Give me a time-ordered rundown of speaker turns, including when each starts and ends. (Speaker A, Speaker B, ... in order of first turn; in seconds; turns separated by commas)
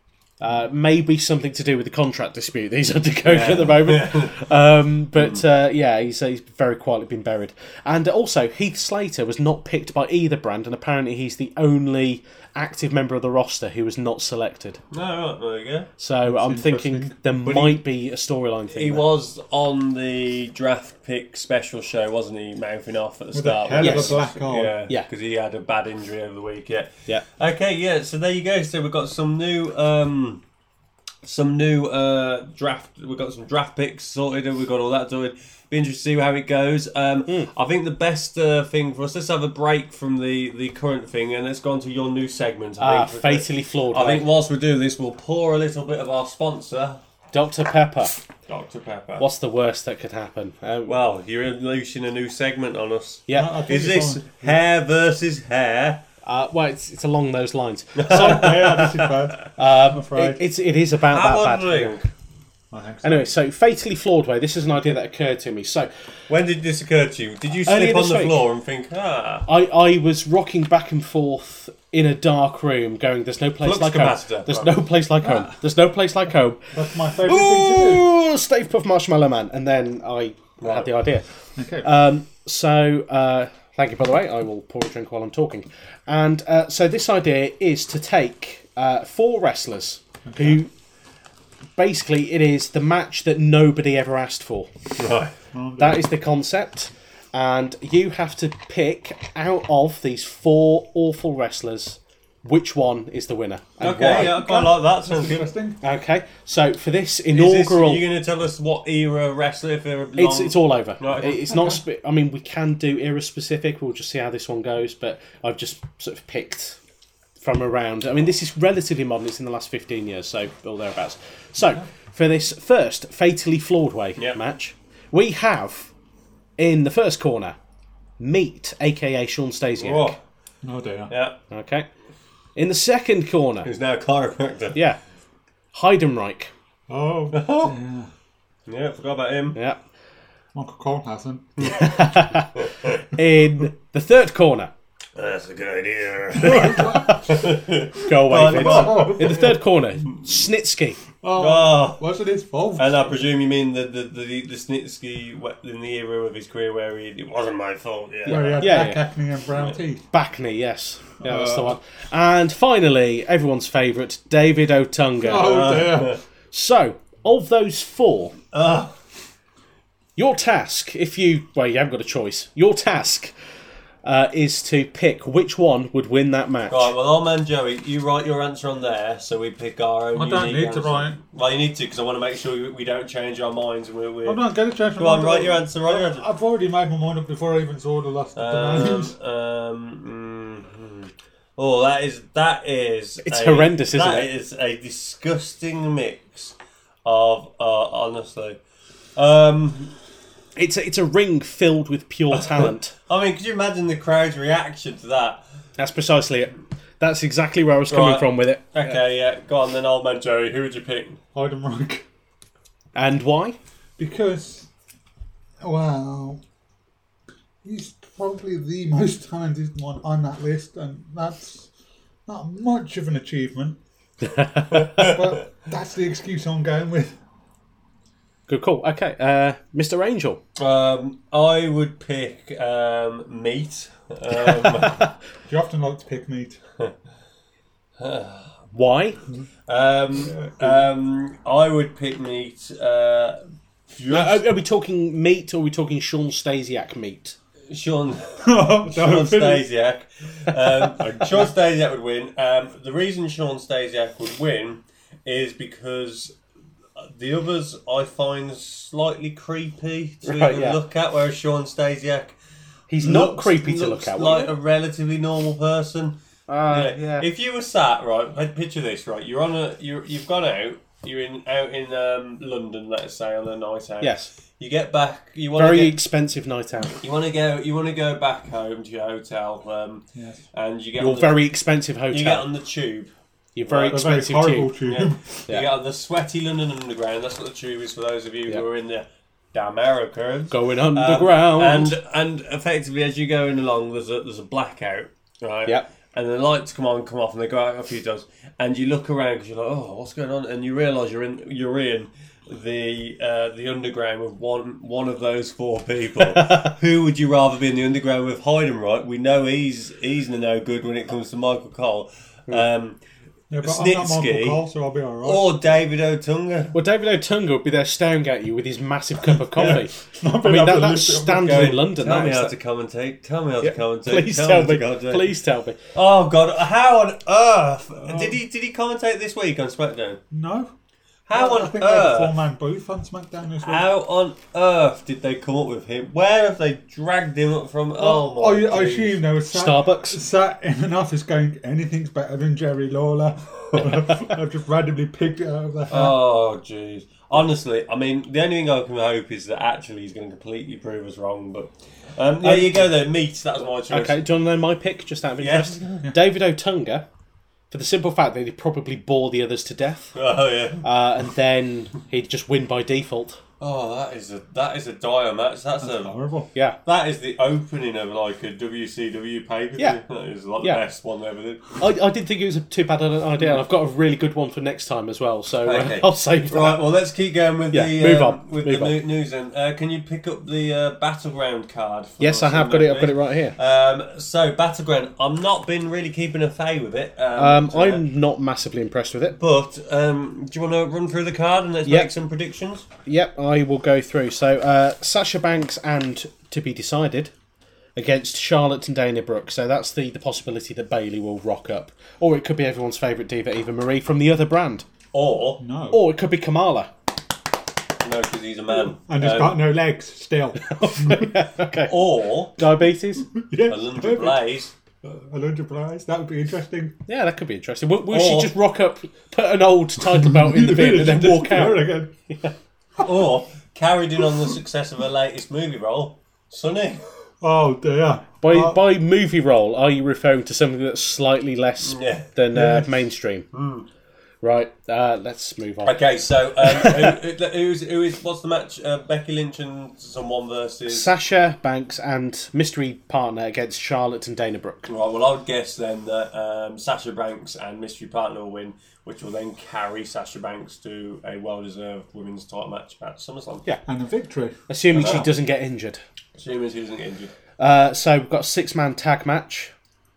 Speaker A: 0.4-14.8, Speaker B: 3.2-4.4, Speaker B: 5.2-5.4, Speaker B: 14.9-15.9, Speaker A: 16.0-19.1, Speaker C: 16.2-17.1, Speaker B: 17.4-17.8, Speaker B: 18.7-30.4, Speaker C: 23.3-24.8, Speaker A: 23.8-24.2, Speaker B: 31.2-47.0, Speaker A: 42.8-44.3, Speaker A: 47.3-48.1, Speaker B: 48.5-49.3, Speaker A: 49.2-51.0, Speaker B: 50.9-56.0, Speaker A: 53.3-53.6, Speaker C: 53.3-54.5, Speaker A: 56.2-59.0, Speaker B: 58.0-58.8, Speaker C: 58.0-60.4, Speaker A: 59.5-61.9, Speaker B: 61.1-62.1, Speaker C: 62.7-63.3, Speaker A: 63.0-65.9, Speaker B: 66.3-69.5, Speaker A: 67.7-68.4, Speaker A: 69.5-76.7, Speaker B: 73.6-74.8, Speaker C: 76.7-78.1, Speaker A: 77.2-81.2, Speaker B: 80.6-80.9, Speaker C: 81.5-81.9, Speaker A: 81.8-90.7, Speaker C: 90.2-90.6, Speaker A: 91.8-94.7, Speaker B: 95.0-95.3, Speaker C: 95.5-96.1, Speaker A: 95.8-104.7, Speaker B: 103.8-105.5, Speaker C: 104.1-105.8, Speaker A: 105.8-108.0, Speaker B: 107.3-111.5, Speaker A: 110.2-116.8, Speaker A: 117.4-125.9, Speaker A: 126.6-127.5, Speaker A: 128.2-130.1, Speaker B: 129.8-130.2, Speaker C: 130.6-131.1, Speaker B: 131.1-131.4, Speaker A: 131.5-131.9, Speaker A: 132.6-133.7, Speaker B: 133.6-134.8, Speaker A: 134.7-135.0, Speaker A: 135.7-136.5, Speaker C: 136.9-138.1, Speaker B: 137.3-137.7, Speaker B: 138.7-139.6, Speaker C: 140.5-141.7, Speaker B: 141.6-141.9, Speaker A: 141.6-144.7, Speaker B: 142.6-143.0, Speaker B: 145.2-149.6, Speaker C: 146.4-147.4, Speaker A: 147.9-151.0, Speaker C: 148.4-149.6, Speaker C: 151.2-153.2, Speaker B: 151.3-152.0, Speaker B: 152.8-158.9, Speaker A: 158.2-159.0, Speaker C: 158.3-160.0, Speaker A: 160.1-165.9, Speaker C: 161.2-161.8, Speaker C: 165.2-166.2, Speaker B: 165.3-166.2, Speaker A: 166.5-168.3, Speaker B: 168.5-168.9, Speaker A: 170.2-173.3, Speaker A: 174.0-176.9, Speaker B: 176.7-184.4, Speaker C: 180.1-181.2, Speaker C: 184.2-189.1, Speaker B: 184.9-186.2, Speaker B: 188.3-198.6, Speaker A: 193.2-194.3, Speaker B: 199.2-199.9, Speaker A: 200.6-202.9, Speaker B: 202.3-205.4, Speaker A: 205.8-209.0, Speaker B: 207.9-211.2, Speaker C: 211.3-212.0, Speaker A: 212.9-213.6, Speaker C: 214.0-214.7, Speaker C: 215.6-216.4, Speaker C: 217.6-221.7, Speaker C: 222.3-223.8, Speaker A: 224.3-224.8, Speaker B: 224.7-225.3, Speaker C: 224.8-227.1, Speaker A: 228.5-230.4, Speaker B: 230.6-235.1, Speaker C: 235.4-236.6, Speaker B: 238.0-238.6, Speaker A: 238.7-239.2, Speaker B: 239.7-244.4, Speaker C: 240.2-240.8, Speaker A: 244.1-247.3, Speaker B: 247.7-256.4, Speaker C: 248.4-249.6, Speaker B: 257.0-262.4, Speaker A: 260.2-260.8, Speaker A: 262.9-264.5, Speaker B: 263.0-276.0, Speaker A: 266.5-267.3, Speaker A: 274.0-274.3, Speaker A: 275.6-277.0, Speaker B: 277.0-281.4, Speaker C: 280.1-280.4, Speaker A: 281.0-282.5, Speaker B: 282.1-283.1, Speaker A: 283.6-284.8, Speaker B: 283.6-284.0, Speaker C: 283.8-285.3, Speaker B: 284.8-313.0, Speaker A: 290.5-292.0, Speaker C: 313.5-315.6, Speaker B: 313.6-314.6, Speaker B: 315.2-316.8, Speaker A: 316.7-322.5, Speaker C: 319.5-321.8, Speaker B: 321.4-325.3, Speaker A: 323.6-325.8, Speaker B: 325.9-330.2, Speaker C: 328.0-328.4, Speaker C: 330.3-330.7, Speaker B: 331.3-332.4, Speaker C: 331.3-333.9, Speaker B: 333.6-339.2, Speaker C: 338.0-346.2, Speaker A: 339.5-340.2, Speaker B: 345.9-354.2, Speaker A: 352.4-352.9, Speaker A: 353.9-357.1, Speaker B: 355.4-356.1, Speaker A: 357.7-360.1, Speaker B: 360.1-360.8, Speaker A: 360.8-363.4, Speaker B: 363.6-366.1, Speaker C: 365.8-366.5, Speaker B: 366.8-371.8, Speaker A: 371.8-376.9, Speaker B: 375.6-388.0, Speaker A: 377.7-379.0, Speaker A: 382.2-383.6, Speaker A: 387.4-389.4, Speaker B: 389.4-392.9, Speaker A: 393.1-397.3, Speaker A: 397.9-404.8, Speaker B: 405.1-405.6, Speaker C: 405.6-406.0, Speaker A: 405.9-406.9, Speaker B: 408.0-409.6, Speaker C: 409.1-411.3, Speaker A: 410.6-411.9, Speaker B: 411.8-412.6, Speaker A: 412.5-413.3, Speaker C: 413.4-414.4, Speaker B: 413.7-414.7, Speaker C: 415.0-417.0, Speaker A: 417.1-422.5, Speaker B: 418.1-418.5, Speaker C: 420.3-422.1, Speaker B: 423.0-427.0, Speaker C: 427.4-428.8, Speaker A: 428.4-433.5, Speaker B: 431.8-432.3, Speaker C: 432.5-432.9, Speaker B: 433.5-433.9, Speaker A: 434.4-435.9, Speaker B: 435.8-441.1, Speaker A: 436.6-437.1, Speaker A: 440.9-444.9, Speaker B: 444.9-453.6, Speaker C: 453.9-455.3, Speaker A: 454.7-456.0, Speaker B: 454.9-455.2, Speaker B: 456.4-457.3, Speaker A: 457.6-459.7